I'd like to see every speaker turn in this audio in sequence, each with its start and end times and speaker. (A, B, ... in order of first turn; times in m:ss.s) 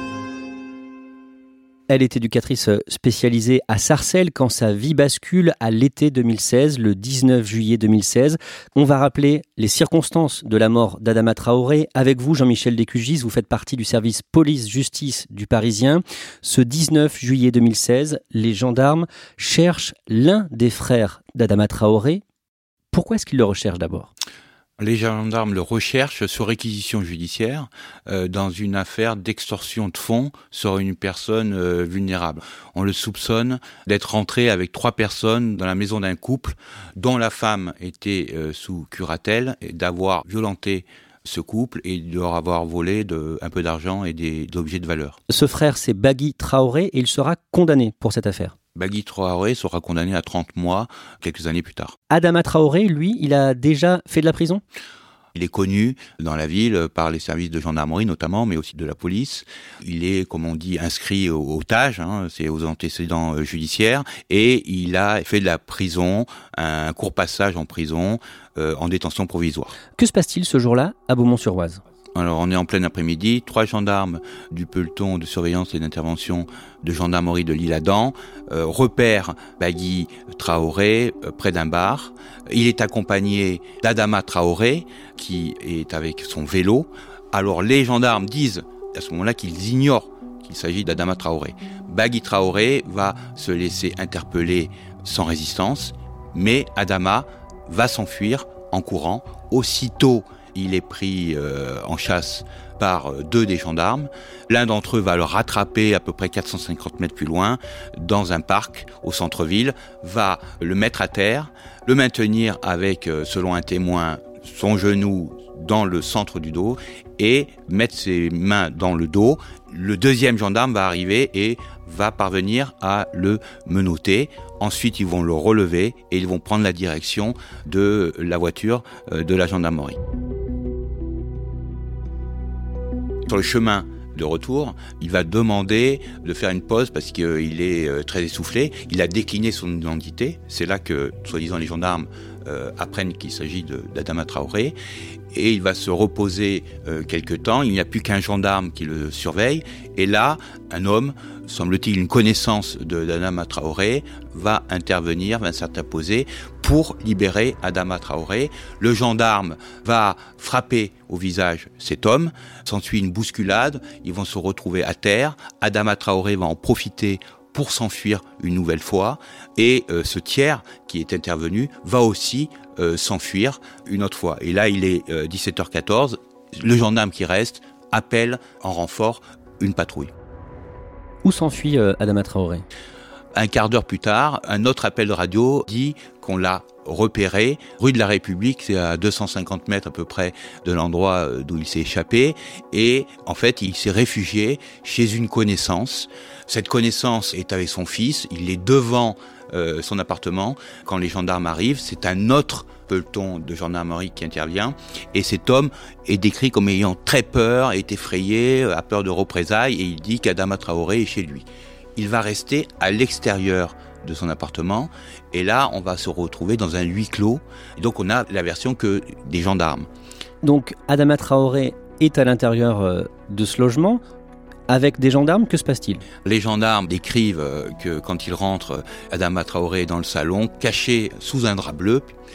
0:01.9-0:22.2 A
0:22.9-0:24.1 A
0:24.8-0:45.2 B
0:45.3-0:48.6 A
0:48.8-0:52.0 B
0:52.1-0:54.6 A
0:55.4-1:09.8 B
1:09.9-1:11.8 A
1:12.2-2:10.0 B
2:13.3-2:24.8 B
2:25.3-3:00.1 B
3:01.2-3:02.6 A
3:03.4-3:39.9 B
3:40.4-3:44.0 A
3:44.7-3:46.0 A
3:46.2-3:52.1 B